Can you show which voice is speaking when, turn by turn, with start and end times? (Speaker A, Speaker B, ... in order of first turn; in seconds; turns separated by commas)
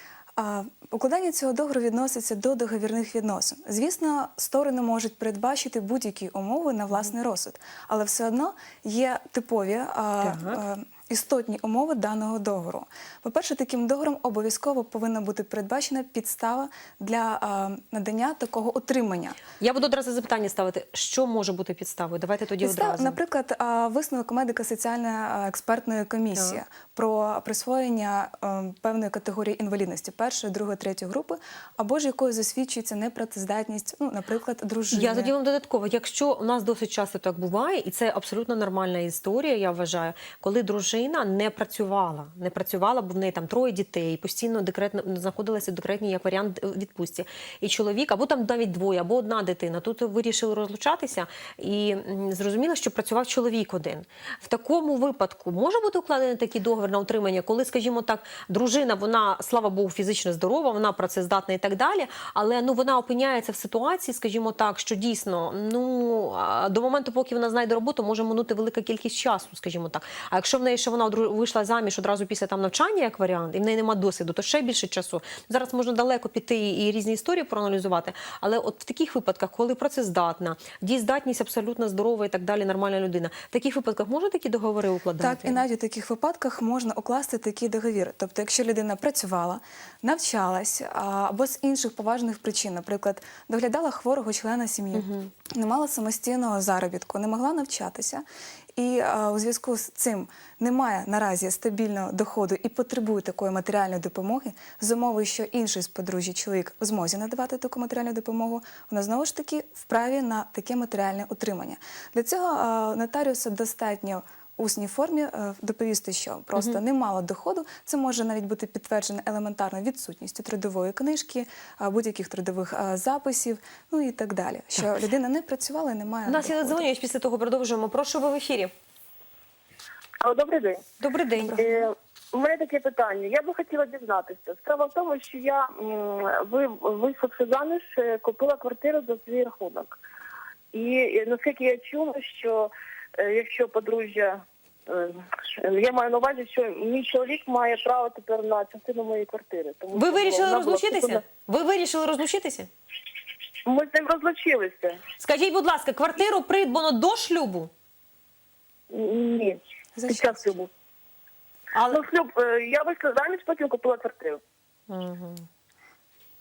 Speaker A: 0.3-19.4, Speaker B: 10.2-10.6, Speaker B: 19.6-23.2, Speaker A: 22.6-35.3, Speaker B: 34.9-85.6, Speaker A: 85.2-98.2, Speaker B: 94.9-95.3, Speaker A: 98.8-126.8, Speaker B: 126.2-128.7, Speaker C: 130.2-130.8, Speaker B: 131.0-131.8, Speaker A: 131.4-131.8, Speaker C: 131.5-140.0, Speaker C: 140.7-151.2, Speaker B: 149.9-152.7, Speaker C: 153.6-155.0, Speaker B: 155.2-157.7, Speaker C: 158.9-160.7, Speaker A: 159.9-160.4, Speaker B: 161.7-162.0, Speaker C: 161.9-164.4, Speaker B: 164.9-165.5